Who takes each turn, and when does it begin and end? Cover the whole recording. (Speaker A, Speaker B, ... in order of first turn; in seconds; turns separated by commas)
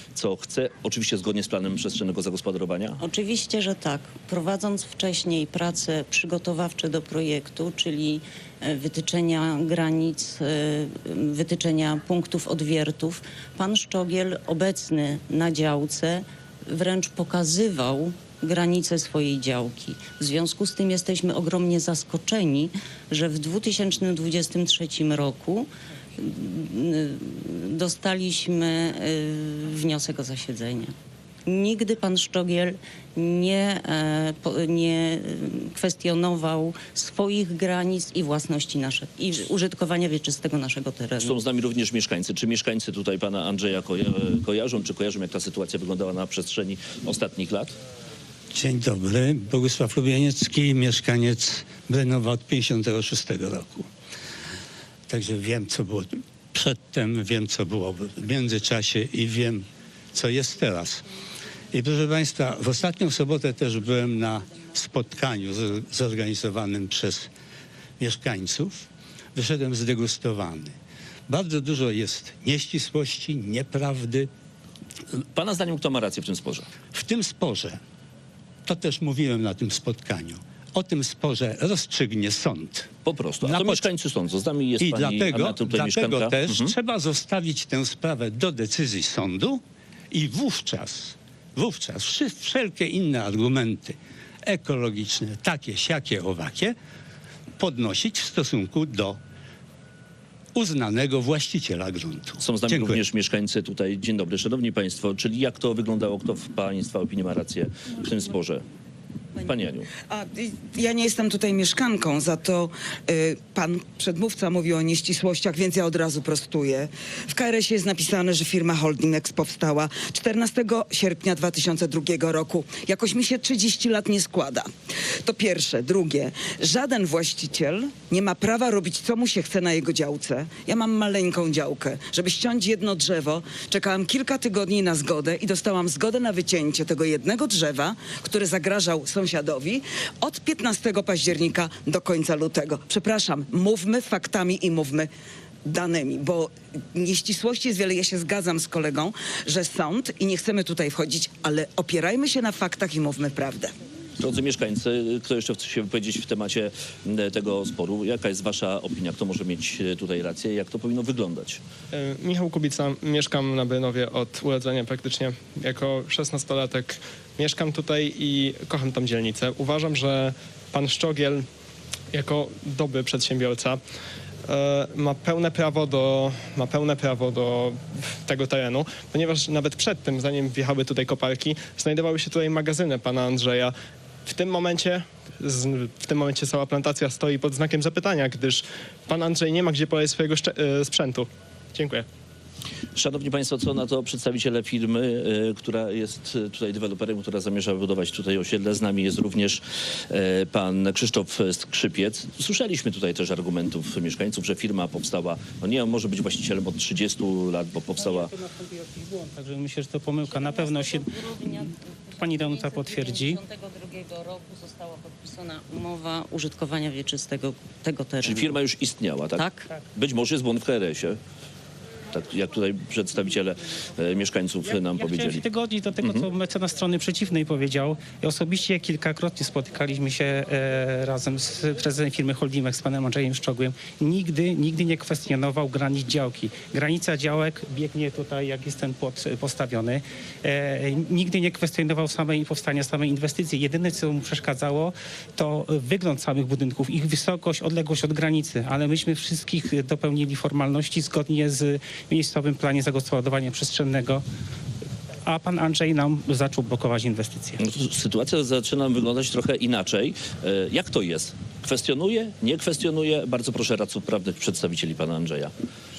Speaker A: 0.1-3.0, Speaker B: 3.0-41.4, Speaker A: 41.2-47.7, Speaker C: 48.5-53.9, Speaker C: 55.1-61.0, Speaker C: 61.7-67.3, Speaker C: 68.0-70.8, Speaker C: 71.3-74.3, Speaker A: 75.3-76.7, Speaker C: 76.9-77.8, Speaker C: 78.7-82.9, Speaker A: 83.0-86.7, Speaker C: 83.4-83.9, Speaker C: 84.8-96.8, Speaker C: 97.6-99.2, Speaker C: 100.5-103.0, Speaker A: 102.4-108.6, Speaker A: 109.4-109.9, Speaker D: 110.1-124.7, Speaker D: 125.2-145.1, Speaker D: 145.7-153.7, Speaker A: 154.2-161.6, Speaker E: 161.9-171.5, Speaker E: 172.1-173.8, Speaker E: 174.5-183.8, Speaker E: 184.3-192.1, Speaker A: 193.0-208.3, Speaker F: 208.0-211.1, Speaker B: 210.2-218.6, Speaker F: 212.2-213.4, Speaker A: 218.2-221.2, Speaker B: 219.3-219.7, Speaker A: 222.1-225.5, Speaker F: 224.7-254.2, Speaker A: 226.0-226.3, Speaker F: 255.3-257.6, Speaker A: 257.6-265.5